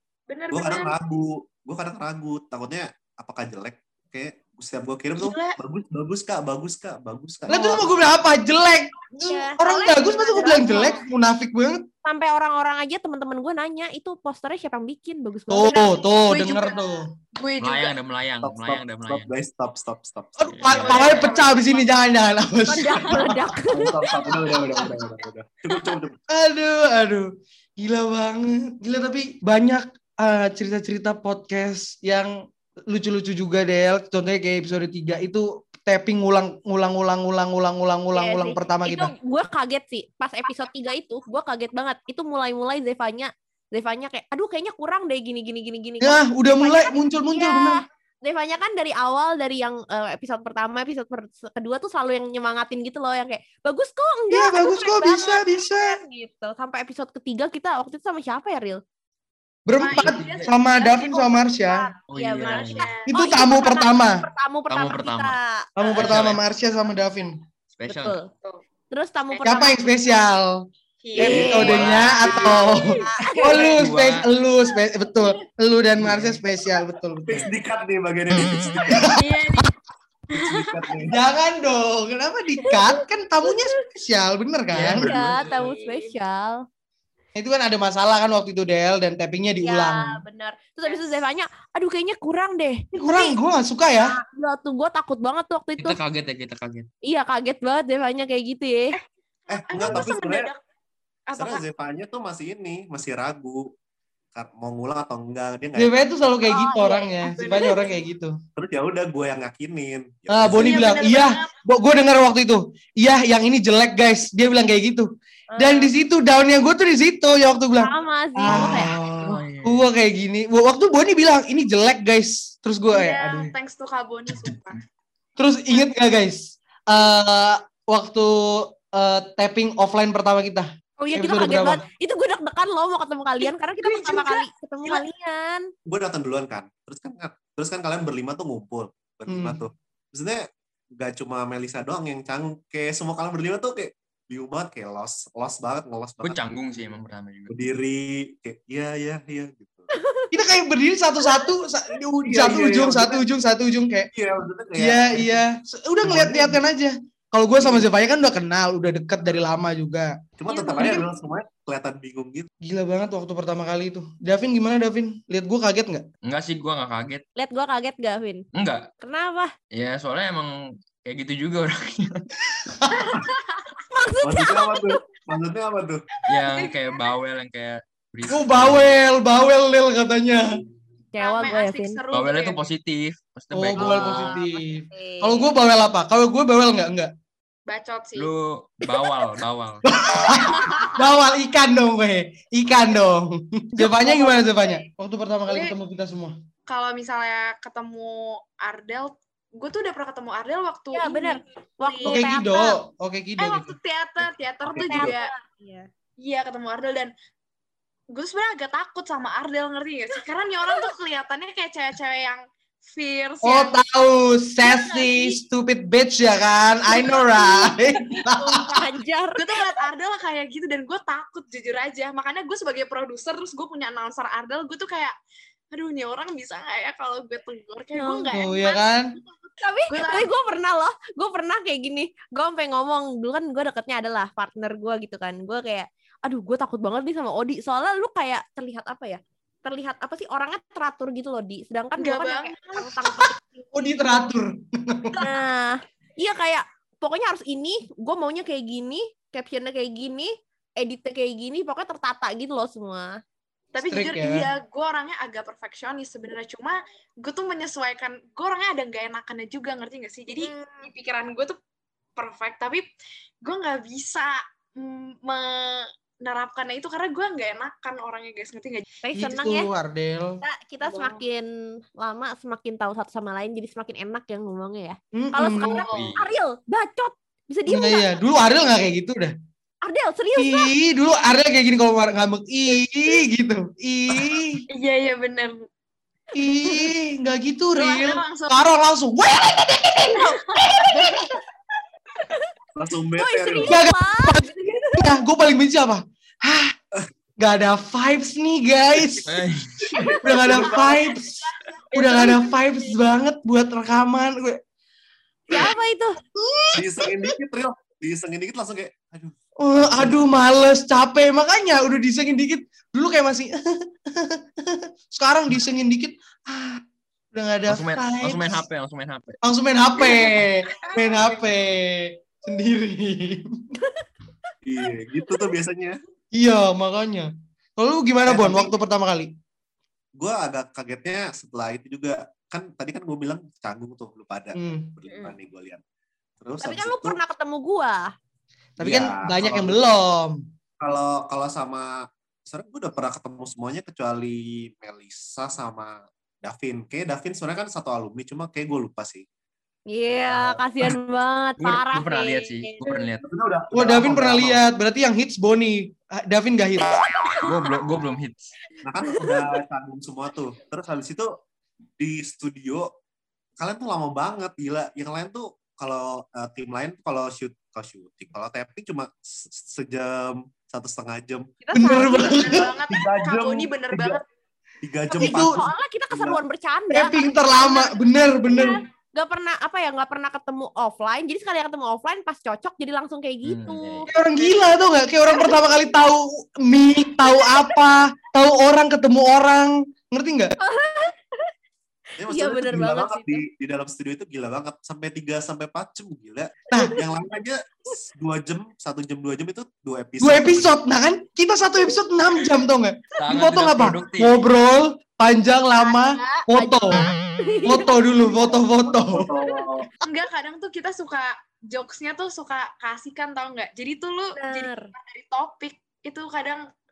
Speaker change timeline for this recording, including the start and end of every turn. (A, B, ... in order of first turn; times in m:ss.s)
0:00.3-0:01.0 A
0:00.5-0:07.9 B
0:05.2-0:05.6 A
0:07.5-0:11.8 C
0:09.2-0:11.0 D
0:10.0-0:11.0 A
0:12.0-0:15.9 D
0:15.5-0:17.1 C
0:16.3-0:17.9 A
0:17.6-0:19.3 E
0:18.4-0:21.0 B
0:20.4-0:23.4 C
0:20.5-0:21.0 E
0:20.7-0:22.0 A
0:22.7-0:23.9 D
0:23.6-0:26.2 B
0:24.1-0:24.9 A
0:26.3-0:32.3 C
0:32.9-0:39.1 C
0:38.1-0:58.8 D
0:46.0-0:47.8 C
0:54.3-0:56.0 C
0:59.6-1:01.9 C
0:59.8-1:01.6 A
1:00.0-1:00.5 E
1:02.1-1:02.9 E
1:02.1-1:05.8 D
1:02.4-1:03.1 A
1:03.1-1:04.2 C
1:04.7-1:05.4 E
1:05.8-1:07.4 C
1:05.9-1:06.4 E
1:07.7-1:08.2 E
1:07.9-1:08.3 D
1:08.9-1:09.8 D
1:09.4-1:10.6 C
1:11.0-1:13.0 A
1:11.2-1:12.6 B
1:11.2-1:17.5 C
1:11.3-1:11.6 D
1:11.6-1:12.3 E
1:12.3-1:13.7 D
1:13.5-1:14.3 E
1:16.0-1:16.4 E
1:17.2-1:19.1 B
1:18.8-1:19.1 C
1:19.1-1:19.7 A
1:20.3-1:21.0 A
1:20.3-1:21.2 B
1:21.1-1:25.1 C
1:24.7-1:25.4 B
1:24.9-1:26.6 D
1:25.4-1:26.1 A
1:27.3-1:30.2 C
1:29.6-1:33.3 D
1:30.8-1:31.2 A
1:32.9-1:34.2 C
1:34.0-1:36.0 D
1:35.8-1:36.9 E
1:37.0-1:38.9 D
1:39.0-1:40.6 A
1:39.5-1:40.5 B
1:41.3-1:41.7 A
1:41.4-1:43.7 B
1:44.3-1:45.9 B
1:45.8-1:48.4 C
1:46.5-1:47.3 D
1:47.2-1:48.0 A
1:48.6-1:51.0 B
1:50.3-2:03.5 C
1:50.5-1:51.5 A
1:55.5-1:55.9 D
1:57.8-1:59.0 D
1:58.5-1:59.9 E
2:02.9-2:04.8 A
2:04.3-2:04.7 E
2:05.4-2:11.8 C
2:11.0-2:15.7 D
2:13.4-2:15.0 A
2:15.8-2:20.4 B
2:19.3-2:19.6 C
2:21.0-2:26.4 B
2:26.2-2:27.6 E
2:27.5-2:29.9 B
2:29.9-2:30.3 D
2:30.3-2:34.1 C
2:32.2-2:33.2 B
2:34.1-2:35.4 B
2:34.8-2:40.2 C
2:36.0-2:36.6 B
2:37.6-2:37.9 B
2:40.4-2:42.5 B
2:40.5-2:41.0 A
2:42.6-2:46.0 C
2:46.2-2:47.2 E
2:47.4-2:48.4 D
2:48.5-2:48.9 E
2:49.0-2:49.5 D
2:49.7-2:52.2 E
2:52.6-2:53.1 C
2:53.3-2:53.7 A
2:53.9-2:55.0 D
2:54.2-2:56.0 B
2:56.3-2:58.9 E
2:56.3-2:57.0 A
2:58.3-3:00.6 C
3:01.1-3:02.0 D
3:01.2-3:02.6 A
3:02.1-3:04.4 E
3:03.5-3:07.1 C
3:03.8-3:05.5 D
3:07.7-3:08.3 A
3:08.2-3:09.8 E
3:09.9-3:16.3 C
3:13.8-3:14.8 D
3:15.5-3:15.7 A
3:16.7-3:22.2 A
3:20.9-3:22.8 D
3:22.0-3:23.7 C
3:23.4-3:25.3 A
3:24.6-3:25.1 B
3:24.8-3:25.9 D
3:26.2-3:27.1 A
3:28.1-3:33.8 A
3:33.4-3:38.8 C
3:34.6-3:35.3 A
3:37.0-3:37.6 D
3:38.3-3:39.4 D
3:39.4-3:45.1 A
3:45.7-3:49.2 A
3:47.9-3:48.3 D
3:48.3-3:49.1 C
3:49.6-4:03.7 D
3:49.9-3:50.3 A
4:02.0-4:02.9 A
4:03.7-4:05.2 C
4:05.2-4:13.2 D
4:13.7-4:21.6 A
4:13.8-4:14.5 C
4:20.3-4:20.8 D
4:22.2-4:22.9 A
4:23.4-4:28.8 A
4:29.0-4:29.7 D
4:29.1-4:30.4 C
4:30.4-4:38.1 D
4:30.8-4:31.2 A
4:35.1-4:35.8 C
4:35.6-4:36.1 A
4:35.9-4:36.2 E
4:37.7-4:39.3 C
4:39.8-4:40.7 D
4:40.4-4:44.6 C
4:44.7-4:45.6 A
4:46.3-4:51.3 C
4:47.8-4:48.6 A
4:50.1-4:50.9 A
4:52.8-4:53.8 B
4:53.2-4:54.4 D
4:53.6-4:56.7 C
4:57.4-4:59.3 C
4:59.3-4:59.9 E
5:00.2-5:04.6 C
5:00.5-5:00.9 B
5:01.9-5:02.5 A
5:05.5-5:06.2 D
5:06.3-5:07.0 C
5:06.7-5:10.2 B
5:09.6-5:13.6 C
5:14.1-5:16.8 C
5:17.3-5:18.6 C
5:17.7-5:19.4 E
5:19.4-5:23.6 C
5:20.0-5:20.3 A
5:20.8-5:21.5 A
5:24.6-5:26.0 B
5:26.3-5:29.3 C
5:28.3-5:28.7 B
5:30.2-5:35.8 B
5:34.6-5:34.9 C
5:35.0-5:35.4 A
5:36.4-5:37.2 B
5:36.6-5:38.1 D
5:38.8-5:40.4 C
5:38.8-5:39.8 B
5:40.8-5:41.9 B
5:42.4-5:49.2 B
5:49.9-5:53.0 D
5:50.3-5:50.5 B
5:51.6-5:53.2 E
5:53.2-5:54.6 B
5:53.7-5:57.0 C
5:57.4-5:58.4 E
5:58.8-6:01.3 B
6:02.0-6:02.9 B
6:03.6-6:11.5 B
6:11.6-6:12.4 D
6:11.7-6:12.7 C
6:11.9-6:14.2 A
6:12.9-6:14.2 B
6:14.8-6:16.4 B
6:15.1-6:17.9 D
6:15.2-6:15.5 C
6:16.9-6:18.8 C
6:18.5-6:24.1 D
6:23.4-6:24.1 E
6:24.1-6:30.6 C
6:24.4-6:24.6 A
6:27.4-6:27.7 D
6:30.6-6:31.5 D
6:32.2-6:40.7 B
6:32.2-6:33.4 D
6:36.7-6:37.0 C
6:40.2-6:47.0 C
6:43.2-6:44.4 E
6:45.8-6:48.0 D
6:47.6-6:49.3 C
6:48.9-6:49.9 B
6:50.0-6:56.6 A
6:54.4-6:54.9 D